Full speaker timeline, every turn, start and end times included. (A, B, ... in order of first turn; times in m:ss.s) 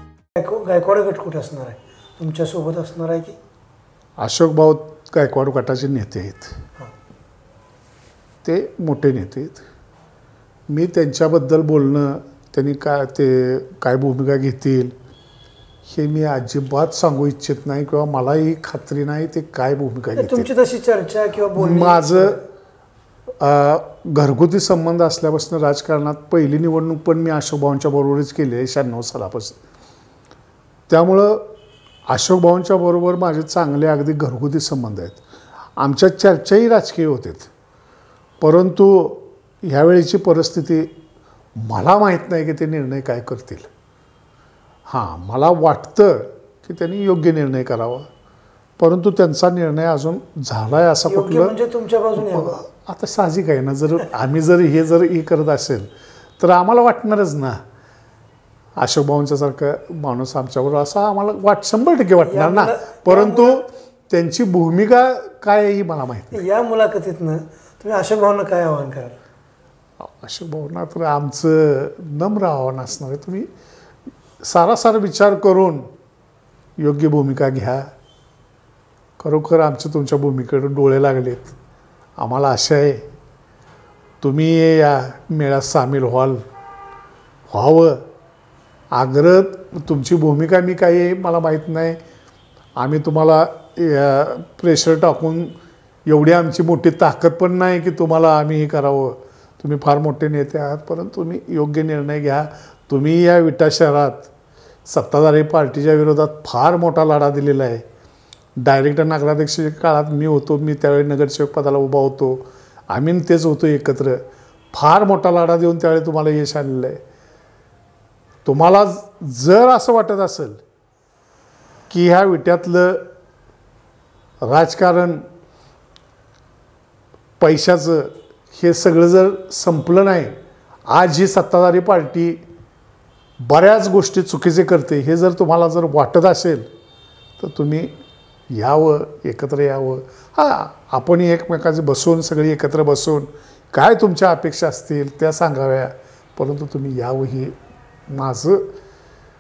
0:00.4-0:03.4 A
0:04.2-0:06.6 B
0:08.4-0:09.6 B
0:10.7-0:15.0 B
0:15.9-0:20.5 B
0:20.2-0:22.4 A
0:21.6-0:22.4 B
0:23.4-0:29.6 B
0:30.9-0:31.4 B
0:32.1-0:35.2 B
0:35.8-0:37.5 B
0:38.4-0:40.9 B
0:41.6-0:43.7 B
0:44.9-0:48.1 B
0:48.8-0:51.6 B
0:51.1-0:52.6 A
0:52.2-0:55.9 B
0:56.4-0:57.6 B
0:58.8-1:06.4 B
1:02.2-1:03.6 A
1:06.3-1:09.2 A
1:10.0-1:13.5 B
1:14.4-1:15.9 B
1:16.8-1:17.9 B
1:19.2-1:21.6 B
1:22.2-1:23.0 B
1:24.2-1:26.4 B
1:27.5-1:28.0 B
1:28.9-1:32.0 B
1:32.8-1:35.6 B
1:36.1-1:44.3 B
1:44.9-1:47.8 B
1:48.6-1:54.2 B
1:54.7-1:57.0 B
1:58.4-2:00.6 B
2:01.9-2:03.1 B
2:04.4-2:05.2 B
2:07.4-2:10.4 B
2:10.9-2:12.4 B
2:13.4-2:16.7 B
2:17.4-2:18.0 B
2:18.5-2:27.6 B
2:28.1-2:28.8 B